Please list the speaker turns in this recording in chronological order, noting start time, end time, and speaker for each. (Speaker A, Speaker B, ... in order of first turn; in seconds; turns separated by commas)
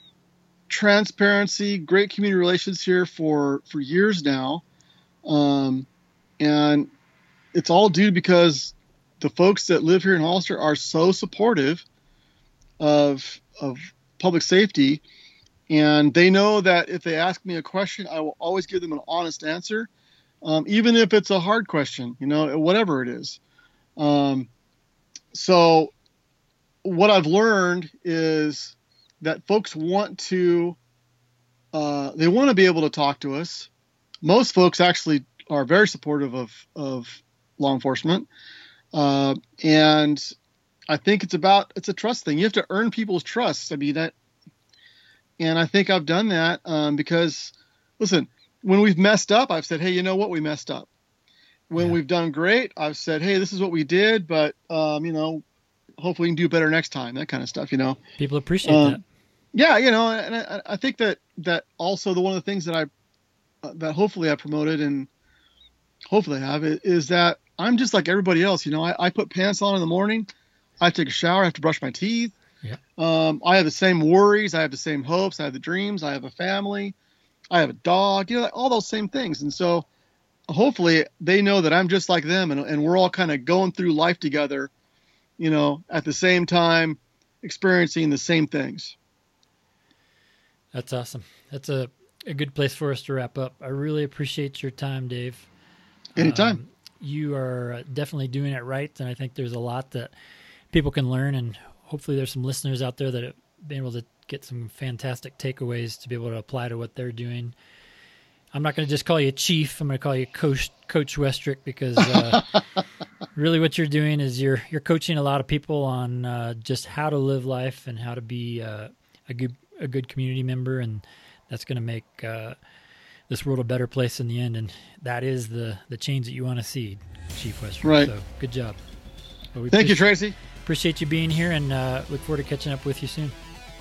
Speaker A: 0.7-4.6, Speaker A: 5.2-5.9, Speaker A: 6.4-6.9, Speaker A: 7.5-11.8, Speaker A: 12.8-15.0, Speaker A: 15.7-19.9, Speaker A: 20.4-23.4, Speaker A: 24.0-24.5, Speaker A: 25.3-25.9, Speaker A: 26.8-30.8, Speaker A: 31.7-33.7, Speaker A: 34.2-38.3, Speaker A: 38.9-40.3, Speaker A: 40.9-44.1, Speaker A: 45.4-50.9, Speaker A: 51.7-55.4, Speaker A: 56.0-58.0, Speaker B: 58.2-59.0, Speaker A: 58.6-59.0, Speaker A: 59.5-62.9, Speaker A: 63.6-65.1, Speaker A: 66.1-70.3, Speaker A: 70.8-72.3, Speaker A: 73.0-76.9, Speaker A: 77.5-79.8, Speaker A: 80.5-84.7, Speaker A: 85.4-89.0, Speaker B: 90.7-95.5, Speaker A: 96.2-96.6, Speaker B: 96.2-100.1, Speaker B: 100.7-107.5, Speaker B: 108.5-112.5, Speaker B: 113.3-122.5, Speaker B: 123.3-128.8, Speaker A: 127.8-128.1, Speaker B: 129.5-130.1, Speaker A: 129.7-130.3, Speaker B: 130.6-133.3